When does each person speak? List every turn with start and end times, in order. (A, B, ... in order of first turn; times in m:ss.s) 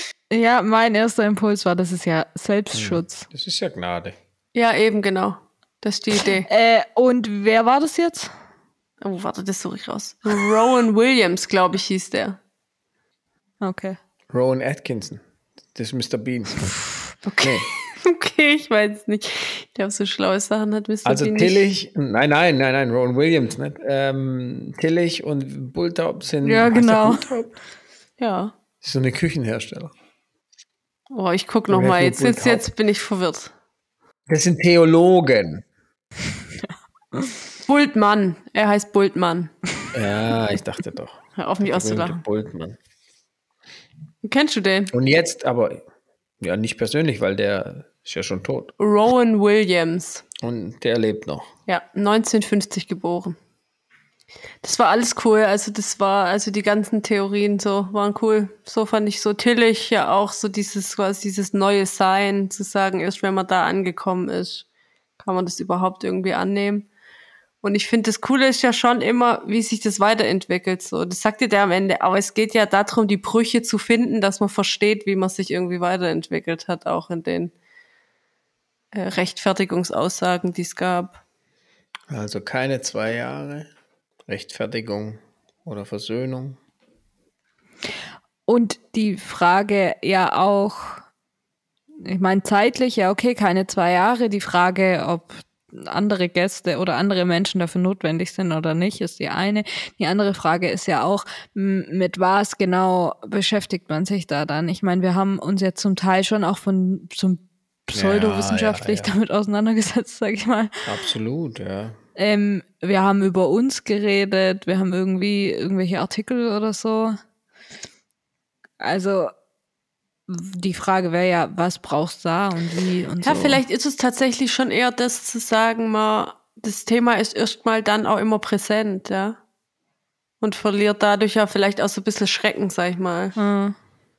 0:00.3-0:03.3 A
0:02.7-0:04.2 B
0:04.6-0:06.5 C
0:06.5-0:08.3 A
0:09.0-0:12.4 C
0:13.6-0:14.0 A
0:14.3-0:15.2 B
0:15.8-0:16.8 B
0:17.3-0:21.6 C
0:17.4-0:17.7 B
0:21.0-0:27.5 B
0:26.4-0:27.3 A
0:28.2-0:28.5 C
0:28.8-0:29.9 B
0:31.1-0:33.5 C
0:31.7-0:32.7 B
0:34.3-0:35.6 B
0:37.7-0:39.5 C
0:39.9-0:42.8 B
0:41.4-0:42.2 C
0:44.2-0:44.9 C
0:44.9-0:45.8 B
0:46.4-0:48.7 B
0:48.8-0:50.2 C
0:50.4-0:51.5 B
0:51.7-0:53.4 C
0:54.6-1:04.6 C
1:05.2-1:06.9 C
1:07.6-1:17.5 C
1:18.9-1:21.2 C
1:22.1-1:23.7 B
1:24.3-1:26.6 B
1:28.5-1:31.0 A
1:32.0-1:50.9 A
1:47.9-1:49.1 B
1:50.8-1:52.0 B
1:52.2-1:57.2 A
1:58.8-1:59.3 A
2:00.3-2:03.6 A
2:03.2-2:09.4 C
2:10.4-2:13.4 C
2:13.4-2:13.8 A